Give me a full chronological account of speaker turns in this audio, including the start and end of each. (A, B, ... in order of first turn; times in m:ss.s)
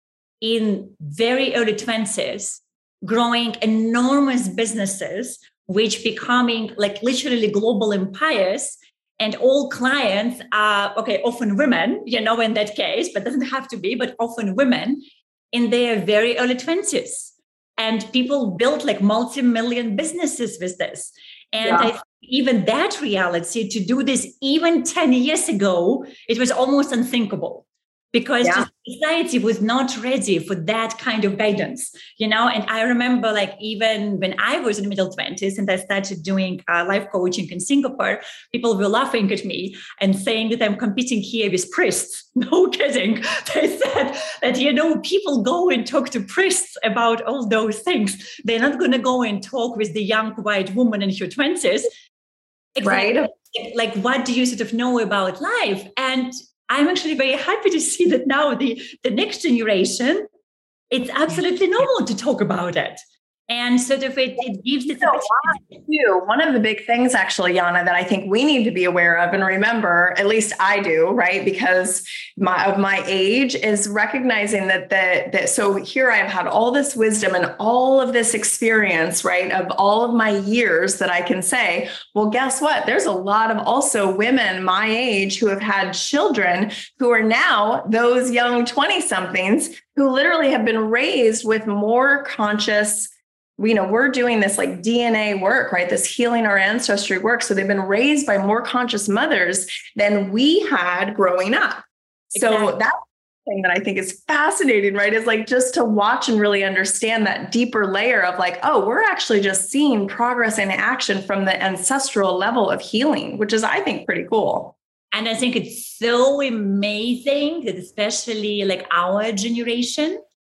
0:00.4-0:51.9 A
0:21.6-0:21.9 B
0:52.8-1:00.3 A
0:52.8-0:53.3 B
1:00.9-1:05.8 A
1:05.0-1:41.8 B
1:42.3-1:42.7 A
1:42.4-1:54.8 B
1:55.1-2:00.2 A